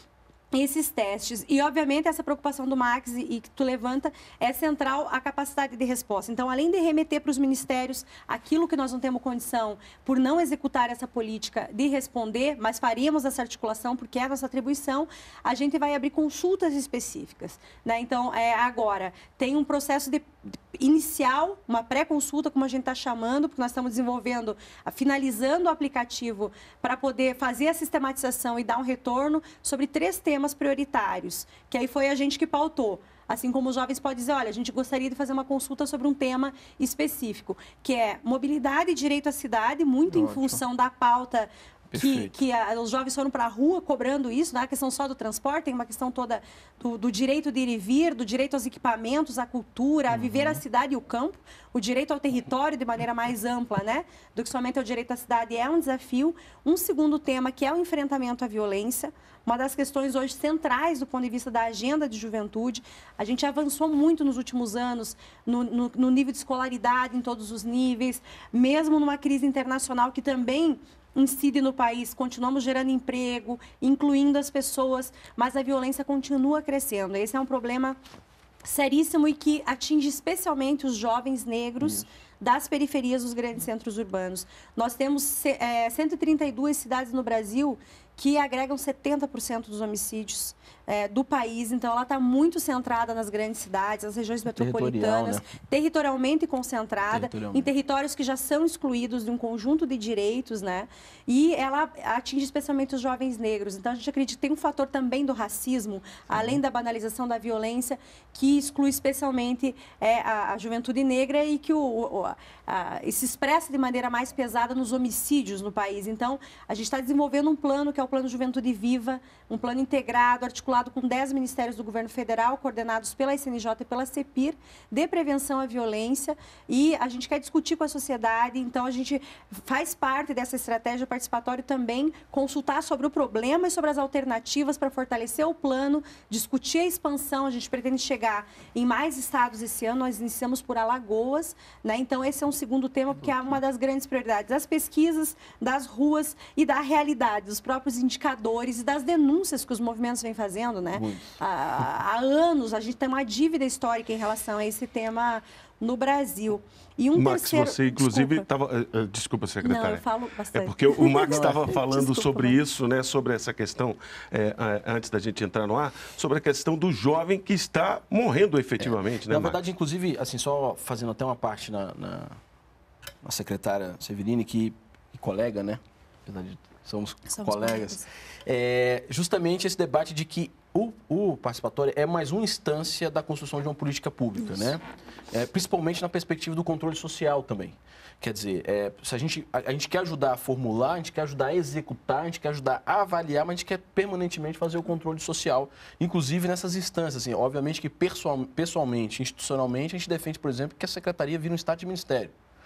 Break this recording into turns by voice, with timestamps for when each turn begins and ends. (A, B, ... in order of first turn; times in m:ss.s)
0:00.5-1:18.0 A
0:40.1-0:40.6 B
0:41.9-0:42.4 B
0:50.1-0:50.6 B
1:18.6-2:38.4 A
1:21.8-1:22.0 B
1:34.5-1:35.5 B
1:37.1-1:37.7 B
1:46.3-1:46.6 B
2:23.2-2:23.5 B
2:30.9-2:31.4 B
2:37.1-2:40.0 C
2:39.6-2:42.6 A
2:40.5-2:49.6 C
2:48.8-2:52.4 B
2:53.2-3:22.3 B
2:57.3-2:58.0 A